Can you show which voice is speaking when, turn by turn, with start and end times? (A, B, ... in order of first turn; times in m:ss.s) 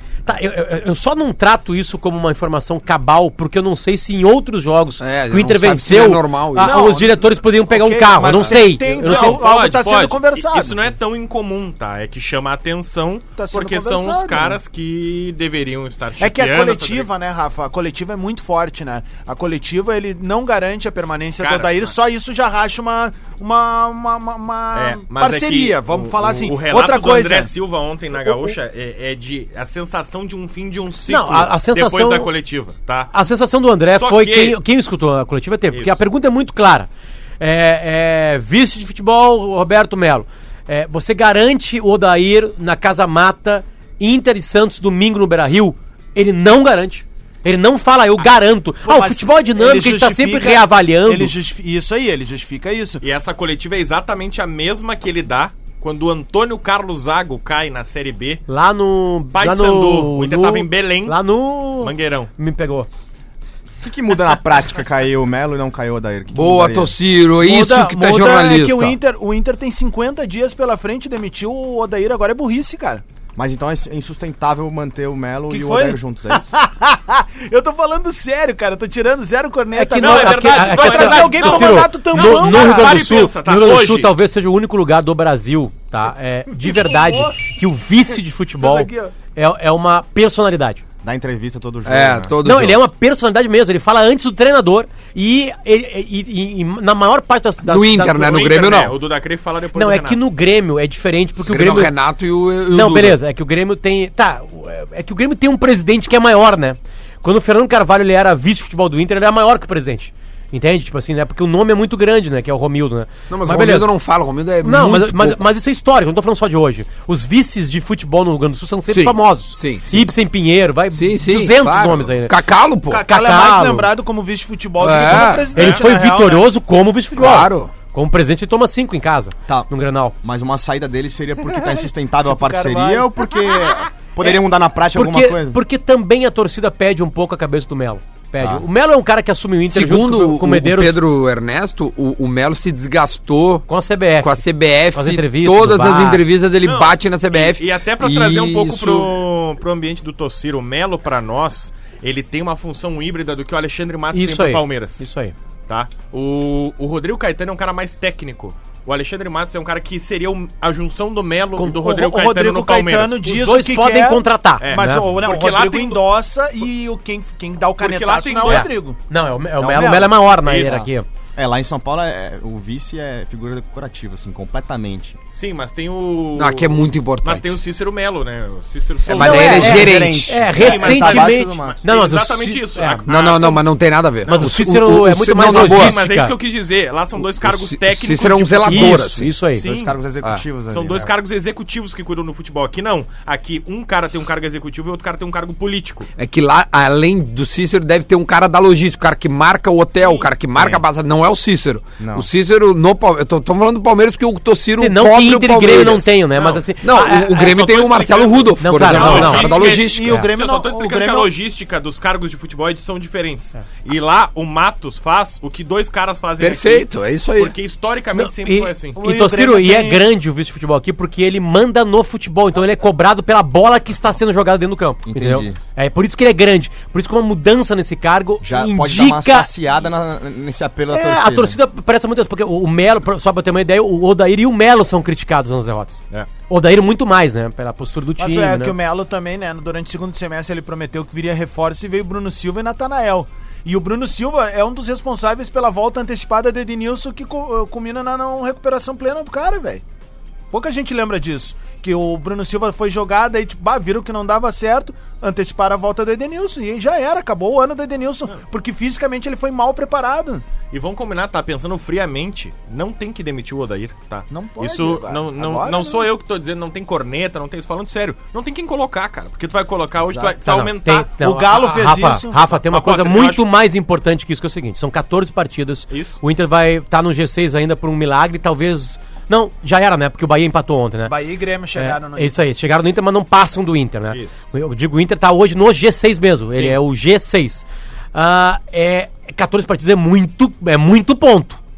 0:00.3-0:09.4 A
0:05.0-0:06.8 B
0:06.6-0:10.9 C
0:08.5-0:17.1 D
0:13.4-0:14.6 C
0:16.2-0:27.5 C
0:21.4-0:22.0 D
0:24.7-0:33.1 D
0:28.2-0:28.5 C
0:31.1-0:32.3 A
0:33.1-0:36.9 A
0:33.9-0:34.6 D
0:35.7-0:36.0 D
0:37.4-0:51.3 A
0:48.8-0:53.0 C
0:53.0-0:58.4 D
0:58.5-1:02.9 A
0:59.3-1:01.2 D
1:01.8-1:02.3 D
1:03.8-1:06.9 E
1:06.3-1:09.0 B
1:07.4-1:13.0 C
1:13.4-1:16.5 E
1:15.5-1:23.0 C
1:19.7-1:30.8 A
1:20.0-1:24.1 D
1:26.5-1:27.5 C
1:28.6-1:29.2 C
1:31.0-1:32.4 E
1:31.8-1:32.8 B
1:32.4-1:38.4 A
1:37.6-1:39.0 B
1:38.2-1:40.2 D
1:39.8-1:41.9 A
1:41.5-1:43.2 B
1:42.7-1:53.9 A
1:53.3-1:55.4 B
1:54.6-2:02.3 A
1:58.9-2:00.1 B
2:00.9-2:03.1 B
2:02.9-2:06.5 C
2:03.1-2:03.9 A
2:04.8-2:05.5 B
2:04.8-2:10.1 A
2:05.5-2:05.9 D
2:07.2-2:07.7 B
2:10.2-2:15.6 E
2:11.6-2:13.2 C
2:14.9-2:21.0 A
2:19.7-2:23.7 B
2:23.7-2:24.4 A
2:24.2-2:29.2 B
2:24.9-2:26.2 A
2:26.6-2:35.0 D
2:34.1-2:35.4 A
2:35.7-2:43.3 D
2:41.6-2:49.0 C
2:43.2-2:45.1 A
2:44.6-2:46.1 D
2:47.8-2:48.7 D
2:48.5-2:51.1 A
2:49.6-2:50.2 C
2:50.4-2:50.8 D
2:51.4-2:55.2 E
2:55.4-2:59.9 D
2:56.4-2:57.6 B
2:59.1-3:00.4 B
2:59.1-3:01.8 E
2:59.2-3:03.1 A
3:00.5-3:03.6 D
3:03.1-3:06.0 B
3:04.2-3:04.6 D
3:04.3-3:06.3 A
3:05.4-3:10.0 D
3:07.2-3:09.3 B
3:08.7-3:09.6 A
3:09.6-3:11.1 E
3:10.7-3:16.1 D
3:16.2-3:26.1 B
3:22.0-3:22.3 E
3:24.8-3:27.5 A
3:26.4-3:26.6 D
3:26.8-3:30.2 B
3:27.2-3:39.0 D
3:28.6-3:29.6 A
3:28.9-3:31.3 C
3:36.4-3:37.5 B
3:38.2-3:49.5 A
3:39.0-3:40.1 C
3:45.1-3:45.6 E
3:48.4-3:51.6 E
3:50.9-3:58.8 A
3:58.2-4:09.8 C
4:10.5-4:20.4 C
4:20.7-4:31.1 D
4:24.3-4:26.1 C
4:30.0-4:30.4 C
4:30.4-4:41.1 A
4:31.2-4:32.5 C
4:32.7-4:33.4 D
4:35.9-4:36.2 D
4:41.1-4:42.4 C
4:41.8-4:51.6 A
4:44.1-4:44.4 D